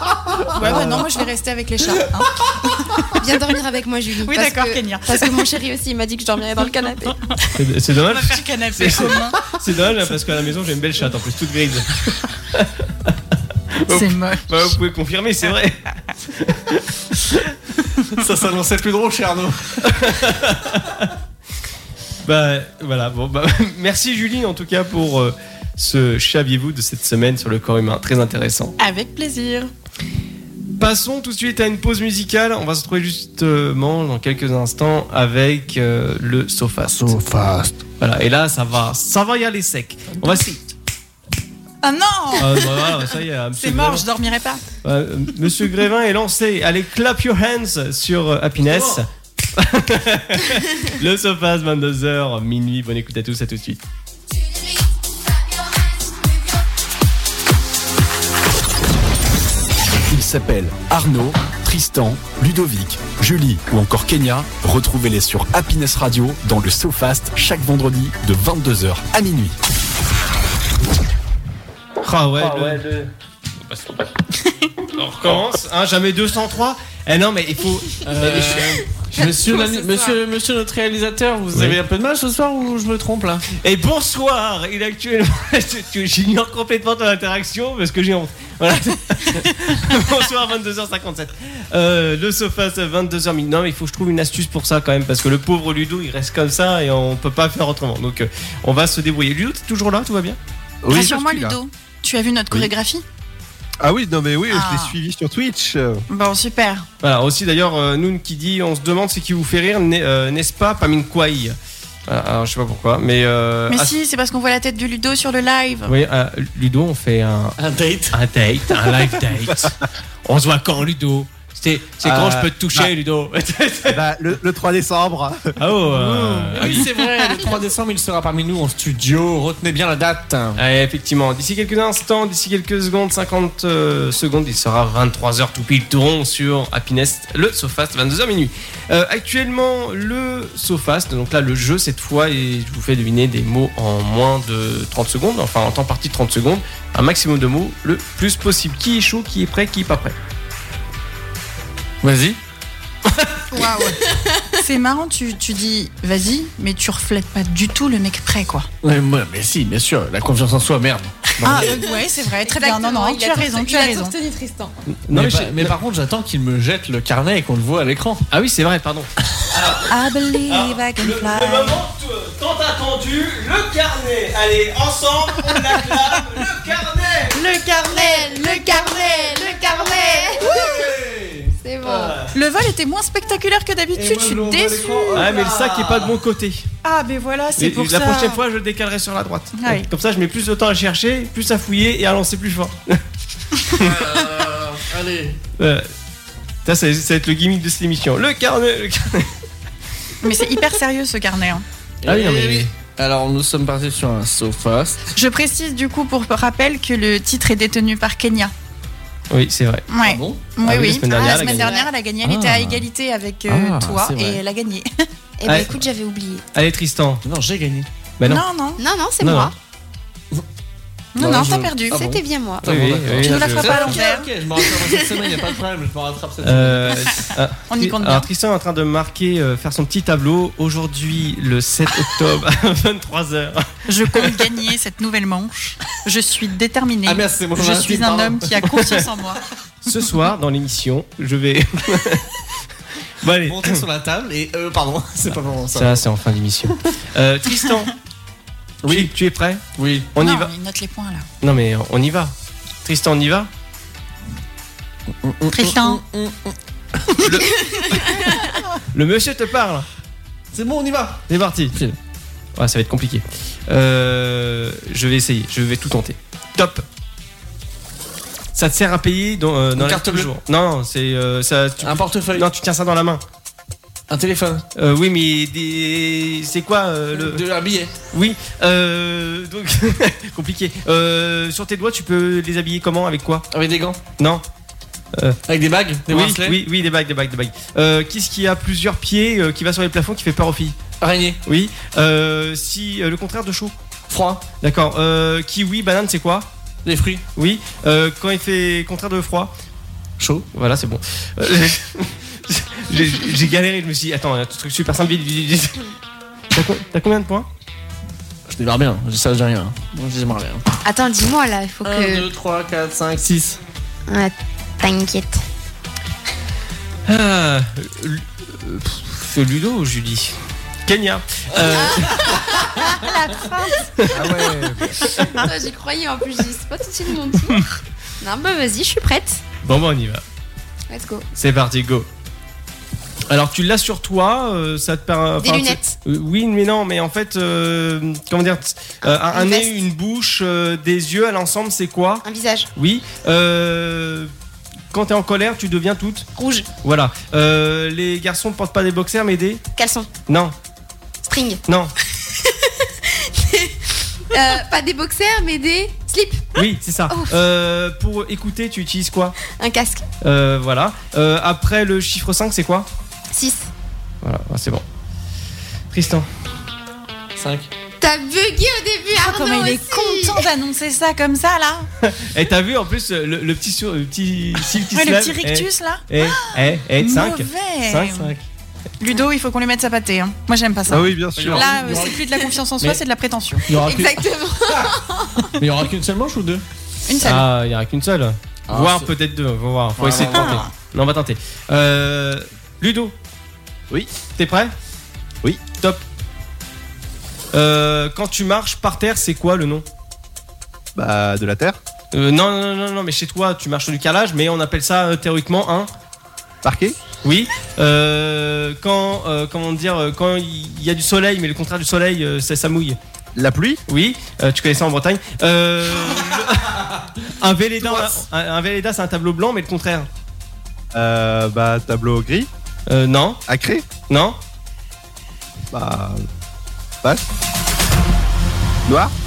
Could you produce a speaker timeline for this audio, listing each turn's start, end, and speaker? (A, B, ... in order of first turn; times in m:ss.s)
0:00.5-0:03.2 A
0:00.6-0:01.1 B
0:03.2-0:07.2 C
0:04.2-0:05.4 A
0:07.6-0:12.7 B
0:08.1-0:09.4 A
0:13.7-0:17.4 B
0:13.9-0:14.7 A
0:18.1-0:19.9 D
0:19.9-0:21.1 B
0:22.2-0:28.8 B
0:28.8-0:29.7 A
0:30.8-0:37.2 B
0:36.8-0:37.8 D
0:38.0-0:40.6 B
0:41.8-0:43.0 A
0:42.4-0:44.1 B
0:43.6-0:44.6 A
0:44.8-0:53.8 B
0:48.6-0:49.0 D
1:00.1-1:09.6 E
1:12.0-1:13.1 B
1:12.4-1:12.8 D
1:13.7-1:13.9 B
1:14.9-1:18.8 B
1:18.0-1:23.5 D
1:23.6-1:40.4 B
1:40.8-1:41.6 F
1:40.9-1:43.0 A
1:43.8-1:46.0 F
1:44.5-1:45.0 A
1:46.1-1:46.9 A
1:47.0-1:53.9 B
1:53.7-1:55.9 A
1:55.9-1:57.6 B
1:57.6-1:58.2 D
1:58.1-2:04.0 B
2:02.0-2:02.9 F
2:03.9-2:05.5 F
2:05.6-2:06.9 B
2:05.9-2:10.6 D
2:10.6-2:30.2 B
2:32.0-2:32.4 D
2:33.5-2:34.0 A
2:34.1-2:34.4 C
2:34.5-2:38.7 A
2:38.8-2:41.7 D
2:41.4-2:44.2 A
2:41.9-2:44.7 C
2:45.1-2:45.7 B
2:45.1-2:48.3 D
2:48.3-2:49.9 B
2:49.9-2:51.8 A
2:50.5-2:57.4 B
2:57.3-2:59.9 A
2:57.8-3:00.9 C
3:00.3-3:02.1 D
3:01.6-3:02.2 C
3:01.9-3:02.3 B
3:02.3-3:05.3 A
3:03.9-3:06.2 D
3:05.1-3:06.7 B
3:06.8-3:08.4 A
3:07.6-3:13.0 B
3:09.6-3:09.9 A
3:13.7-3:15.4 D
3:15.6-3:15.9 B
3:16.6-3:19.3 B
3:20.2-3:21.6 A
3:22.0-3:25.0 D
3:22.1-3:22.7 B
3:25.1-3:28.5 A
3:29.3-3:29.9 B
3:29.9-3:34.9 A
3:30.0-3:30.4 D
3:30.6-3:31.8 B
3:31.1-3:31.9 C
3:32.2-3:32.9 D
3:33.5-3:34.4 D
3:35.4-3:36.4 C
3:35.4-3:35.8 B
3:36.5-3:37.2 B
3:37.2-3:37.9 D
3:38.2-3:38.8 A
3:38.8-3:39.5 C
3:39.2-3:39.5 B
3:41.1-3:42.0 A
3:41.2-3:47.2 D
3:41.9-3:42.7 C
3:42.6-3:44.0 B
3:43.2-3:44.3 A
3:44.7-3:45.2 C
3:46.4-3:54.4 B
3:47.7-3:48.3 A
3:53.9-3:59.4 A
3:57.1-3:58.6 D
3:59.8-4:02.3 B
4:03.2-4:03.8 B
4:03.4-4:06.0 D
4:05.7-4:07.9 B
4:08.8-4:09.1 D
4:08.9-4:10.5 B
4:09.7-4:10.1 D
4:10.2-4:11.3 A
4:11.4-4:12.3 B
4:12.8-4:13.5 B
4:15.2-4:16.6 D
4:15.5-4:16.0 A
4:17.2-4:18.2 B
4:18.9-4:19.9 B
4:20.5-4:22.0 D
4:21.3-4:21.8 B
4:22.6-4:26.8 B
4:28.6-4:33.2 B
4:29.7-4:30.3 D
4:31.8-4:32.5 D
4:34.1-4:34.6 D
4:34.7-4:37.4 B
4:37.1-4:37.9 D
4:38.1-4:43.5 B
4:43.5-4:44.0 D
4:44.2-4:44.4 B
4:45.5-4:46.6 D
4:46.1-4:50.8 B
4:51.0-4:51.4 D
4:51.4-4:53.7 B
4:54.1-4:54.4 D
4:54.5-4:56.5 B
4:56.8-4:57.2 D
4:57.4-4:59.5 B
5:00.2-5:00.4 D
5:00.5-5:05.8 B
5:06.5-5:07.5 B
5:08.5-5:10.6 D
5:10.8-5:12.3 C
5:11.8-5:13.6 D
5:14.1-5:15.4 C
5:17.1-5:22.4 B
5:21.8-5:22.8 C
5:22.9-5:23.9 A
5:24.0-5:24.4 B
5:24.1-5:25.1 F
5:25.4-5:27.6 C
5:28.2-5:29.4 C
5:29.6-5:30.2 B
5:30.9-5:31.3 C
5:31.4-5:32.1 B
5:33.3-5:42.2 B
5:35.4-5:36.0 C
5:39.0-5:39.8 C
5:42.2-5:42.7 C
5:42.8-5:44.3 B
5:44.9-5:46.3 B
5:46.4-5:46.7 C
5:46.8-5:49.6 B
5:49.8-5:50.1 C
5:50.3-5:50.5 B
5:51.3-5:51.6 C
5:51.7-5:51.9 B
5:52.4-5:57.3 C
5:56.6-5:59.4 B
5:59.5-6:00.0 C
6:00.2-6:02.9 B
6:03.3-6:03.7 C
6:04.2-6:04.8 B
6:05.9-6:06.3 B
6:07.4-6:07.7 D
6:08.0-6:10.4 C
6:09.1-6:11.9 A
6:12.0-6:18.1 B
6:14.9-6:18.3 A
6:18.1-6:18.4 D
6:19.0-6:23.7 A
6:20.9-6:21.7 F
6:21.4-6:22.2 D
6:23.7-6:25.0 D
6:23.7-6:25.4 C
6:25.5-6:26.6 D
6:27.1-6:27.5 A
6:27.2-6:33.1 B
6:28.7-6:29.1 D
6:30.0-6:30.6 D
6:30.3-6:30.7 A
6:34.4-6:34.7 B
6:35.8-6:36.0 B
6:37.5-6:39.8 B
6:41.0-6:41.8 F
6:42.1-6:45.9 B
6:46.6-6:47.0 F
6:47.2-6:53.0 B
6:53.4-6:53.8 F
6:53.9-7:00.1 B
6:57.8-6:58.2 F
7:00.9-7:02.5 F
7:02.9-7:03.4 B
7:03.5-7:03.9 F
7:04.1-7:04.4 B
7:05.7-7:06.3 F
7:08.9-7:09.1 F